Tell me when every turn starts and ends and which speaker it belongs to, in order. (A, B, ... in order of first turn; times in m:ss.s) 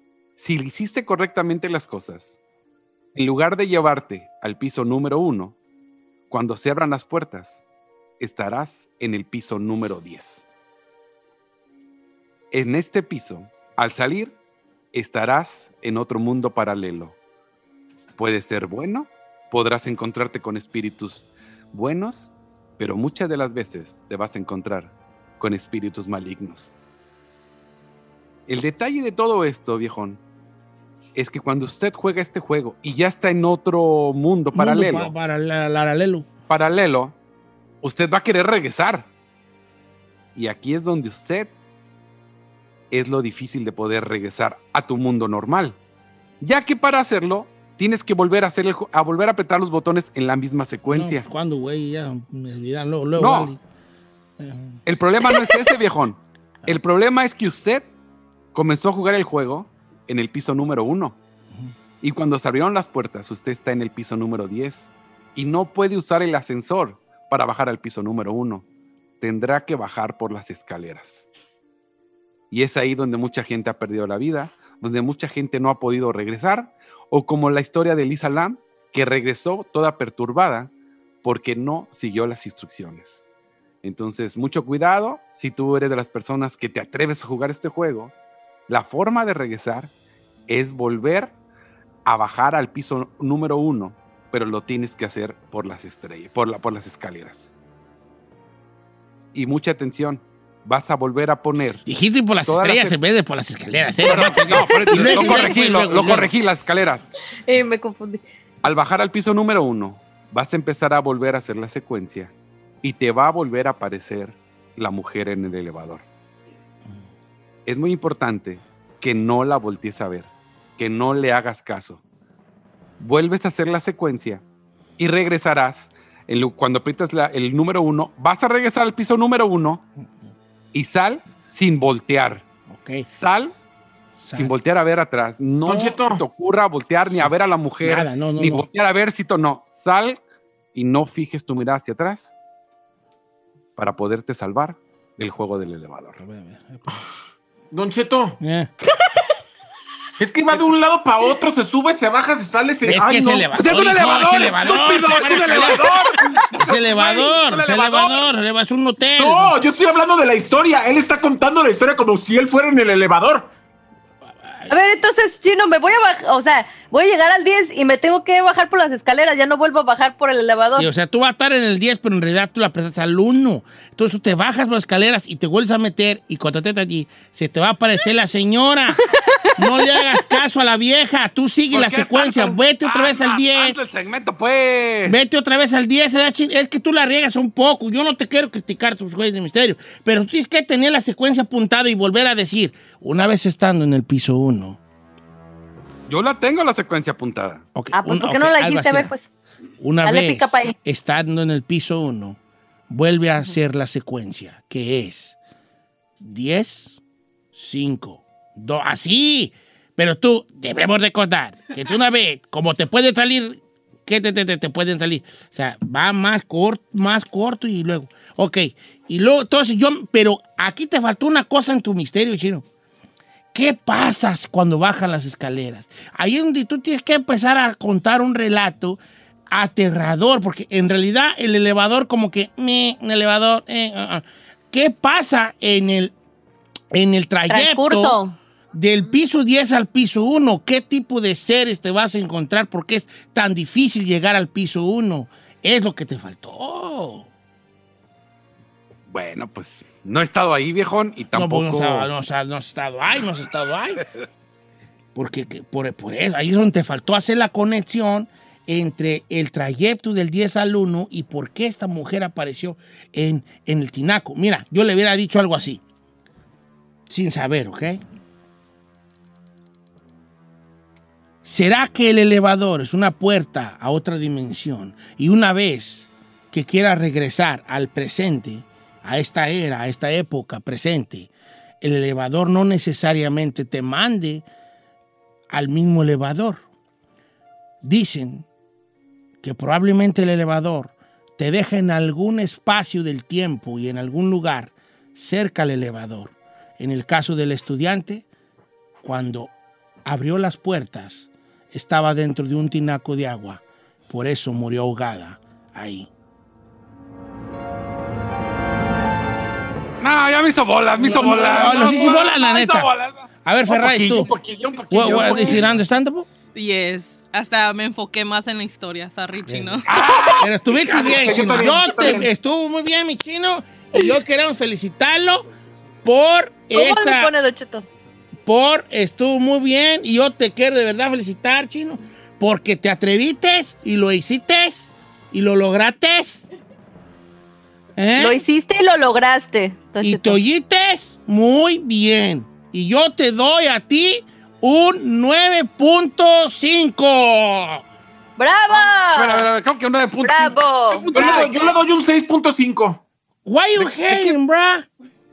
0:00.4-0:02.3 A
0:03.1-0:05.6 A
0:06.3-0:07.6 A
0:08.2-0:10.4 A
0:12.5-0:14.3 A
0:14.9-0:17.1 A
0:18.2-0:26.8 A
0:28.5-0:30.2 A
0:31.1-0:35.1 A
0:34.5-0:36.3 B
0:36.5-0:37.2 A
0:37.8-0:39.1 A
0:40.4-0:41.5 A
0:42.9-0:45.8 A
0:46.4-0:51.2 A
0:50.9-0:53.6 B
0:53.2-0:53.5 A
0:54.4-0:54.8 B
0:54.8-0:57.9 A
0:58.5-1:01.2 A
1:02.0-1:08.6 A
1:09.2-1:11.2 A
1:12.5-1:20.7 A
1:21.2-1:23.2 A
1:23.8-1:28.1 A
1:28.7-1:29.9 A
1:30.5-1:31.3 A
1:32.0-1:37.5 A
1:39.3-1:41.8 A
1:41.8-1:46.3 B
1:42.4-1:43.0 A
1:44.0-1:47.0 A
1:44.8-1:45.5 C
1:47.5-1:48.2 C
1:48.6-1:52.3 A
1:52.8-1:56.0 A
1:57.6-2:02.0 A
2:03.0-2:04.4 A
2:05.0-2:09.8 A
2:10.7-2:12.4 A
2:12.7-2:13.0 B
2:13.1-2:13.5 A
2:14.2-2:14.5 B
2:14.3-2:20.2 A
2:15.6-2:16.2 D
2:17.8-2:18.6 B
2:20.7-2:22.3 A
2:23.8-2:26.2 A
2:26.2-2:27.0 B
2:27.7-2:28.4 D
2:28.4-2:28.7 B
2:30.2-2:33.7 D
2:32.8-2:35.9 B
2:33.6-2:36.5 A
2:34.8-2:38.3 D
2:36.5-2:39.5 B
2:37.5-2:37.8 A
2:39.2-2:43.5 D
2:44.7-2:50.9 C
2:50.7-2:59.0 B
2:59.6-3:03.8 B
3:01.7-3:05.2 A
3:05.0-3:14.8 B
3:16.1-3:17.6 A
3:17.7-3:19.1 B
3:17.9-3:19.2 C
3:19.8-3:22.4 B
3:20.0-3:20.7 C
3:22.9-3:25.4 B
3:26.2-3:27.0 B
3:27.5-3:42.6 B
3:43.5-3:49.0 B
3:49.5-3:56.1 B
3:56.9-3:58.2 B
3:57.5-3:58.4 C
3:58.7-4:07.3 B
4:09.1-4:12.1 A
4:11.3-4:14.0 B
4:15.1-4:25.8 B
4:27.1-4:28.0 B
4:31.4-4:41.3 B
4:41.8-4:44.4 B
4:45.5-4:46.6 B
4:47.8-4:48.4 B
4:49.4-4:58.2 B
4:59.0-4:59.5 B
5:00.0-5:06.1 B
5:10.0-5:15.8 A
5:11.0-5:12.9 B
5:13.4-5:14.3 B
5:14.9-5:16.3 B
5:16.5-5:20.0 E
5:19.5-5:19.8 B
5:19.8-5:21.8 A
5:20.4-5:25.4 B
5:20.9-5:22.3 D
5:26.0-5:27.3 B
5:26.7-5:27.8 C
5:28.4-5:36.4 B
5:38.0-5:38.4 B
5:38.2-5:40.4 C
5:40.0-5:47.8 B
5:48.4-5:49.5 C
5:48.8-5:51.8 A
5:50.2-5:51.1 C
5:51.1-5:53.0 D
5:53.4-5:54.8 B
5:53.8-5:54.3 A